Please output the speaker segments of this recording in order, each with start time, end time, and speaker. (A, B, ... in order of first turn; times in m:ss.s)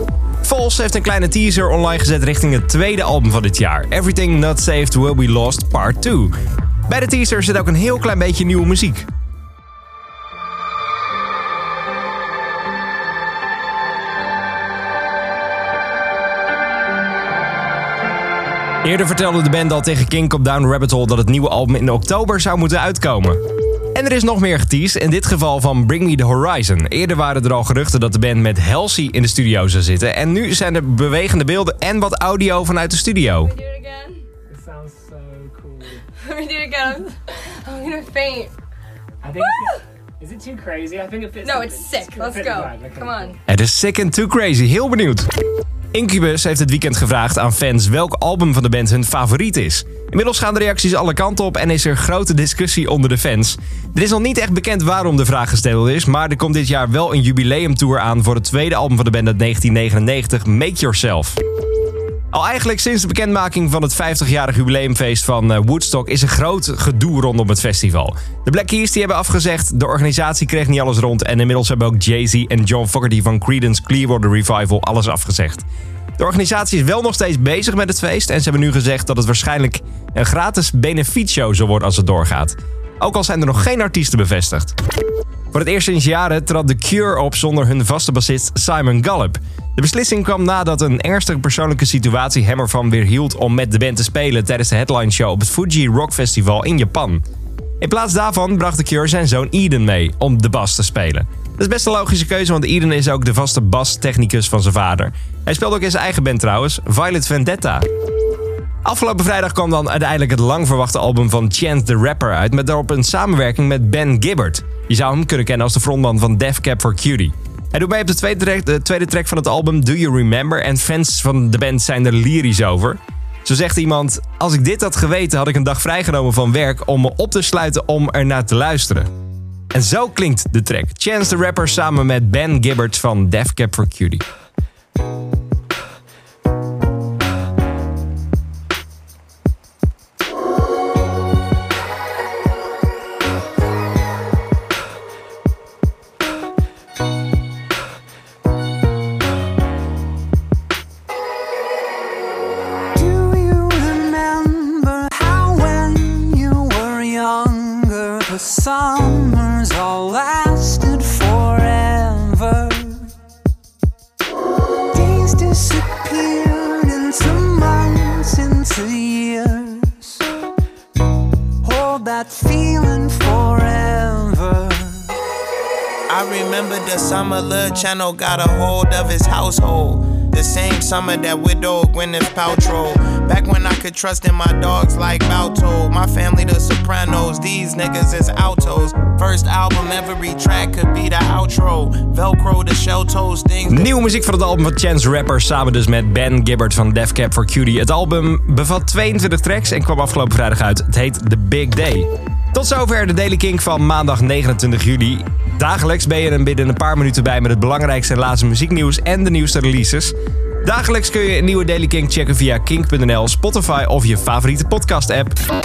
0:00.4-0:06.3 A
0:06.9-0:09.0 A
0:18.8-0:23.4 A
0:23.9-0:33.5 A
0:33.4-0:34.2 B
0:34.5-0:36.0 C
0:36.2-0:38.5 B
0:39.2-0:43.4 C
0:41.4-0:43.4 B
0:43.4-0:45.3 A
0:45.9-1:01.4 A
1:02.3-1:15.6 A
1:16.2-1:24.7 A
1:25.5-1:37.2 A
1:37.8-1:47.8 A
1:48.8-2:09.1 A
2:09.7-2:14.2 A
2:33.0-2:43.1 D
2:44.9-2:50.2 D
2:51.6-2:55.2 D
2:56.1-3:13.9 E
3:13.7-3:35.4 A